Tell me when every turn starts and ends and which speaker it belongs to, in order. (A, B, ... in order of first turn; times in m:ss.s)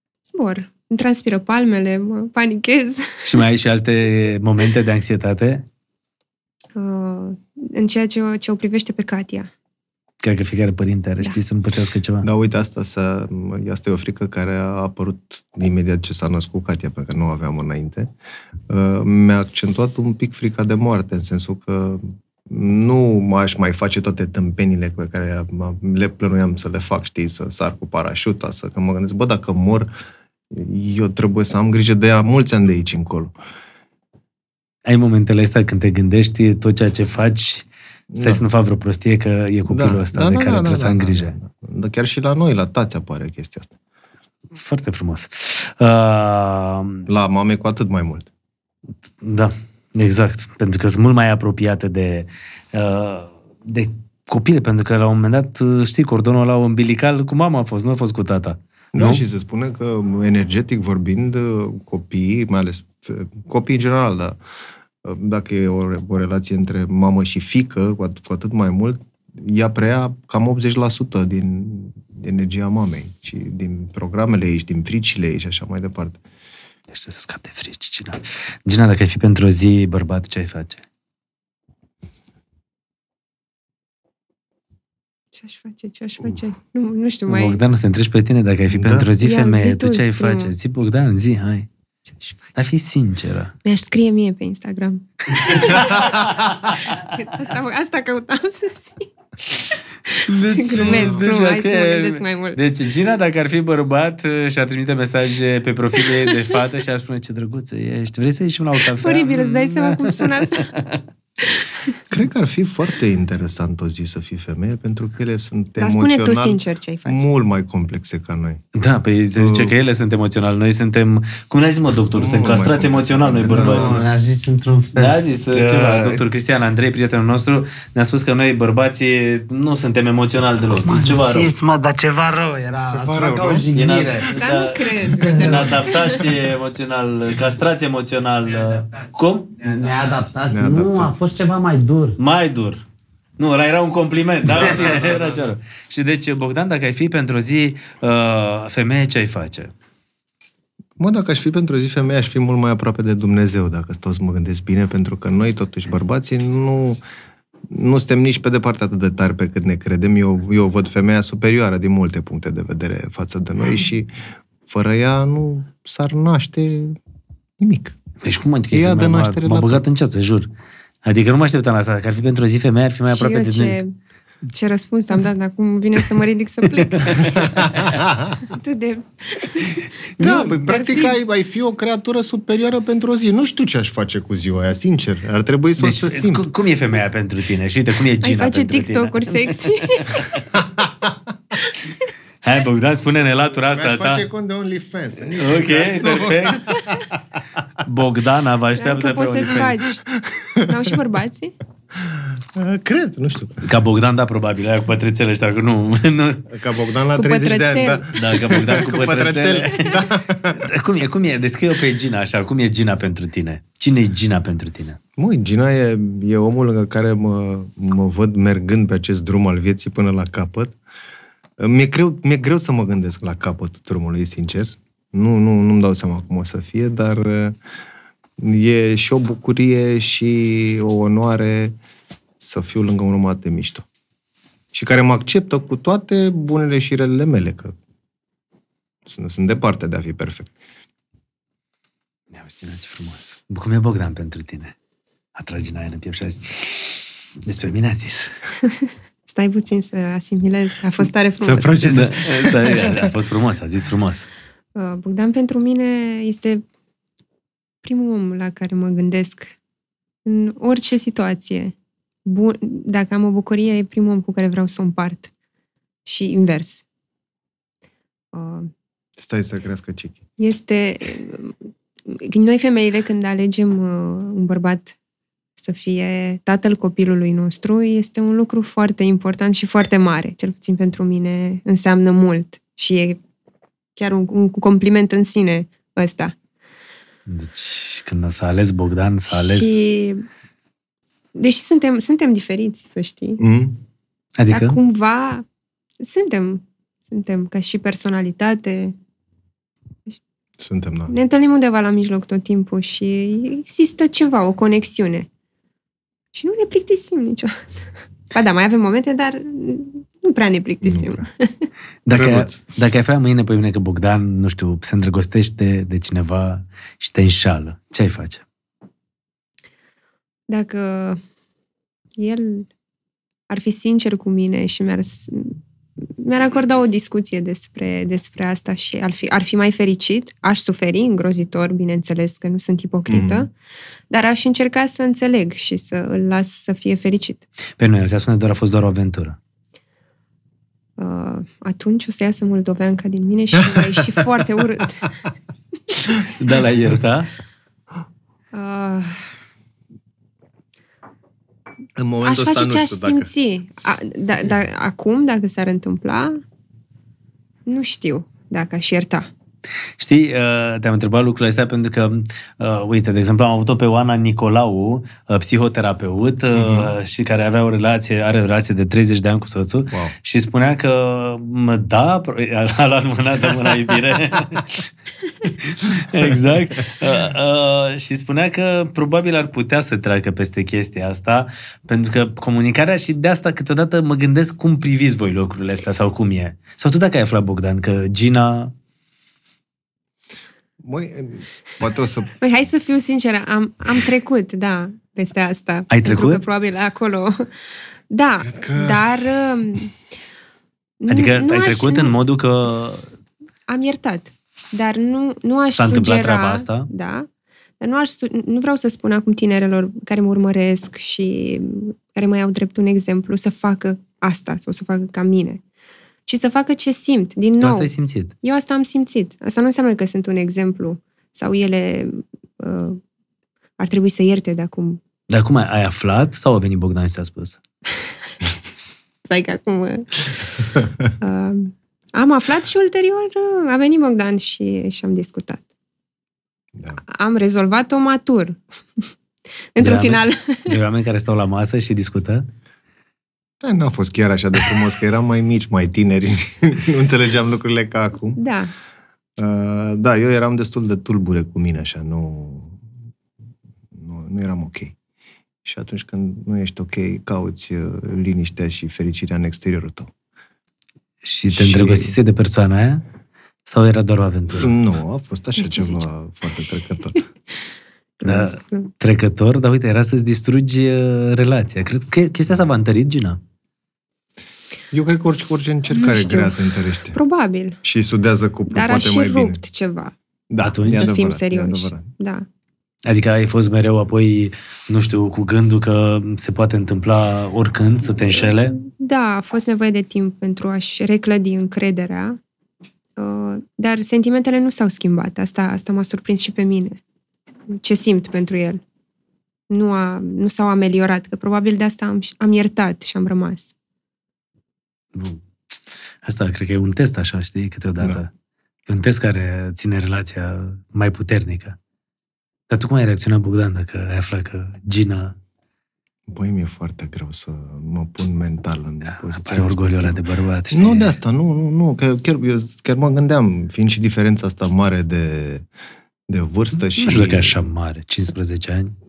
0:00.3-0:03.4 A
0:03.2-0:05.6 B
0:06.8-0:09.5 A
0:10.2-0:12.3 B
0:12.2-0:18.1 C
0:18.7-0:29.9 C
0:30.5-0:33.4 C
0:34.9-0:37.7 B
0:38.1-0:38.4 C
0:38.2-0:41.4 B
0:39.7-0:43.7 C
0:44.5-0:47.1 B
0:47.1-0:48.3 C
0:49.2-0:59.2 B
0:58.9-1:04.4 C
1:05.0-1:16.2 C
1:16.9-1:20.8 B
1:25.4-1:27.6 A
1:27.3-1:31.7 B
1:28.7-1:29.1 C
1:29.2-1:30.5 A
1:32.6-1:33.5 B
1:33.6-1:42.6 A
1:35.3-1:37.2 B
1:40.2-1:51.0 B
1:40.8-1:41.2 C
1:49.0-1:50.7 A
1:51.4-1:52.0 A
1:52.1-1:58.6 C
1:55.8-1:57.2 A
1:58.8-2:04.0 B
1:59.4-1:59.7 C
2:02.1-2:04.0 C
2:03.5-2:06.2 D
2:05.0-2:11.5 B
2:10.8-2:14.4 D
2:12.9-2:14.1 C
2:13.7-2:19.6 B
2:14.3-2:16.3 A
2:15.1-2:15.7 D
2:19.6-2:22.2 D
2:20.5-2:21.1 C
2:22.2-2:22.8 B
2:23.4-2:29.7 B
2:24.5-2:25.2 D
2:24.6-2:25.1 C
2:31.0-2:37.0 C
2:37.7-2:44.1 C
2:44.6-2:47.0 C
2:47.6-2:48.0 C
2:48.2-2:50.5 B
2:48.7-2:49.8 C
2:51.0-2:53.8 B
2:53.1-2:53.9 A
2:54.5-3:01.2 A
2:56.7-2:58.0 B
2:57.4-2:58.4 C
2:59.6-3:00.6 B
3:00.2-3:06.5 C
3:05.8-3:10.4 B
3:08.2-3:10.3 A
3:10.6-3:11.1 C
3:11.6-3:12.1 A
3:12.4-3:14.2 B
3:13.7-3:17.4 C
3:15.3-3:16.8 B
3:17.8-3:19.9 B
3:18.8-3:20.0 A
3:20.1-3:20.8 C
3:20.6-3:21.5 A
3:21.9-3:23.6 C
3:23.6-3:26.5 B
3:26.5-3:30.6 C
3:27.2-3:28.1 A
3:28.1-3:30.0 B
3:30.5-3:35.0 B
3:35.2-3:40.8 C
3:41.6-3:47.6 C
3:48.4-3:51.8 C
3:52.4-3:53.8 C
3:54.7-3:57.8 C
3:59.1-4:00.5 C
4:02.3-4:04.8 B
4:05.4-4:08.3 B
4:08.6-4:12.0 A
4:11.4-4:13.1 C
4:11.9-4:14.3 B
4:14.8-4:16.6 A
4:17.8-4:19.6 A
4:20.2-4:21.7 A
4:22.2-4:25.3 A
4:26.1-4:26.8 A
4:28.3-4:28.7 A
4:29.2-4:30.2 C
4:30.4-4:31.6 A
4:32.1-4:35.0 A
4:35.6-4:43.2 A
4:44.0-4:46.4 A
4:47.3-4:49.9 B
4:49.3-4:50.2 A
4:51.4-4:53.4 A
4:53.4-4:53.8 C
4:54.4-4:54.8 B
4:54.5-4:55.4 A
4:56.0-4:59.0 A
5:00.6-5:01.1 C
5:01.1-5:05.3 A
5:06.3-5:07.6 A
5:08.3-5:11.7 A
5:10.8-5:11.2 C
5:12.1-5:18.4 B
5:12.1-5:12.6 C
5:20.5-5:21.2 A
5:22.2-5:22.7 A
5:23.5-5:33.5 A
5:33.1-5:33.5 C
5:34.1-5:37.4 A
5:37.8-5:39.4 B
5:41.0-5:45.2 A
5:43.6-5:44.2 C
5:46.3-5:47.3 B
5:48.5-5:49.2 A
5:52.0-5:53.3 C
5:52.2-5:56.4 A
5:57.7-5:59.3 A
6:00.0-6:14.9 B
6:06.6-6:06.9 C
6:15.4-6:28.7 B
6:30.8-6:32.3 C
6:32.4-6:37.5 A
6:35.9-6:36.4 B
6:38.1-6:39.9 A
6:38.4-6:39.0 C
6:41.0-6:42.2 A
6:41.1-6:43.1 B
6:43.7-6:47.3 A
6:45.8-6:46.9 B
6:47.8-6:55.6 A
6:56.3-6:57.9 A
6:57.6-6:58.3 B
6:58.4-7:03.0 A
7:03.8-7:05.0 A
7:05.3-7:07.6 B
7:09.3-7:15.6 A
7:16.8-7:17.0 C
7:17.1-7:19.0 A
7:19.8-7:20.8 A
7:19.8-7:22.5 B
7:23.6-7:28.4 C
7:28.4-7:28.7 A
7:29.4-7:32.8 C
7:33.9-7:35.0 C
7:35.6-7:40.1 C
7:41.2-7:43.0 B
7:41.5-7:42.2 C
7:43.7-7:44.7 B
7:44.5-7:47.2 C
7:45.6-7:46.1 A
7:48.2-7:48.9 A
7:48.2-7:53.4 B
7:54.9-7:57.2 C
7:55.9-7:56.6 A
7:57.1-7:57.8 A
7:57.8-7:59.6 C
7:58.7-8:00.1 A
8:00.5-8:02.1 C
8:00.6-8:01.1 B
8:00.8-8:02.5 A
8:03.0-8:08.8 B
8:08.5-8:12.4 A
8:13.2-8:17.0 A
8:17.7-8:18.8 A
8:19.7-8:23.7 A
8:25.1-8:25.4 B
8:26.2-8:28.3 B
8:28.9-8:31.8 B
8:32.7-8:35.4 B
8:36.3-8:45.7 C
8:39.1-8:41.2 B
8:46.3-8:47.6 C
8:47.0-8:49.0 B